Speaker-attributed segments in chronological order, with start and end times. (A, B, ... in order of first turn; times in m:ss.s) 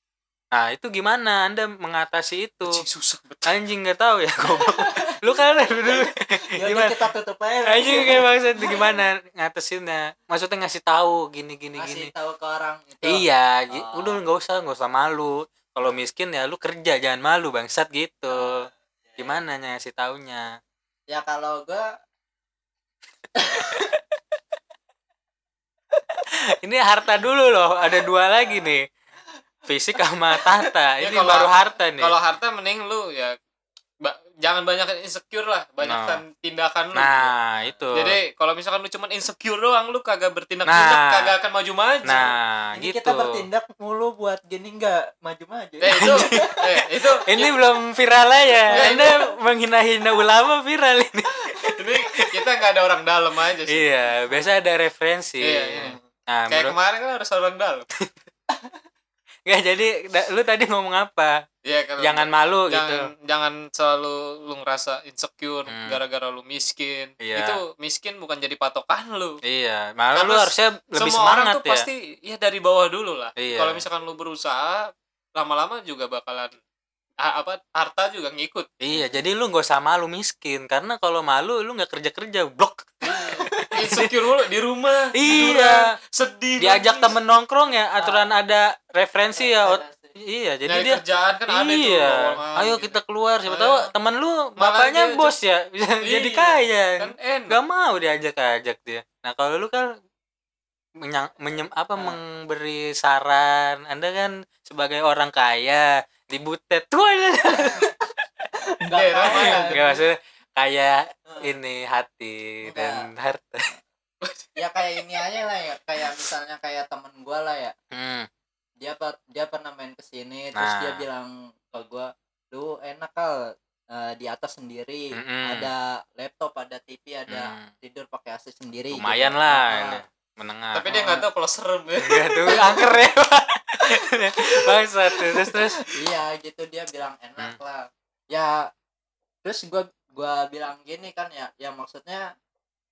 0:00.5-0:02.8 A
0:02.6-0:03.5 B
0:03.4-0:07.0 A
0:04.6-0:09.0 C
0:07.6-0:12.1 A
0:11.8-0:14.2 C
0:13.0-0:20.6 A
0:18.3-0:19.4 C
0:21.1-0:21.9 C
0:23.3-0:24.0 C
0:26.2-0:28.8 A
0:29.7-0:32.1 A
0:30.3-0:30.7 C
0:31.0-0:33.4 B
0:34.0-0:37.3 B
0:35.8-0:36.2 A
0:36.9-0:38.2 A
0:37.9-0:42.3 B
0:40.6-0:41.3 A
0:42.0-0:43.4 A
0:42.7-0:46.8 C
0:45.8-0:47.5 B
0:45.9-0:46.5 A
0:47.2-0:52.4 A
0:48.7-0:49.1 C
0:48.7-0:49.1 B
0:51.7-0:53.9 B
0:53.7-0:56.7 A
0:55.4-0:56.0 B
0:56.5-0:57.8 B
0:58.5-0:58.8 C
0:59.5-1:01.4 A
1:01.6-1:09.4 B
1:02.0-1:03.1 A
1:05.7-1:06.0 A
1:07.2-1:07.6 A
1:09.4-1:11.9 A
1:10.1-1:16.6 B
1:13.4-1:13.8 A
1:17.2-1:18.7 B
1:18.8-1:24.1 A
1:18.9-1:19.2 C
1:23.0-1:27.2 B
1:23.3-1:23.7 C
1:25.1-1:25.8 A
1:26.6-1:39.9 A
1:28.0-1:28.3 C
1:29.3-1:30.1 C
1:30.7-1:33.9 B
1:34.6-1:35.3 B
1:36.0-1:37.6 B
1:41.0-1:47.9 A
1:47.5-1:48.1 C
1:48.8-1:49.9 C
1:49.0-1:50.0 B
1:49.2-1:53.7 A
1:51.3-1:51.5 C
1:52.6-1:53.0 C
1:54.2-1:54.5 B
1:54.6-1:57.7 C
1:57.9-1:58.3 A
1:58.8-2:10.0 C
2:00.5-2:01.0 A
2:05.1-2:05.7 A
2:07.3-2:07.7 A
2:08.9-2:10.9 A
2:10.7-2:12.8 B
2:10.9-2:11.2 C
2:12.0-2:16.0 A
2:12.5-2:12.8 C
2:14.0-2:18.7 C
2:19.4-2:22.3 C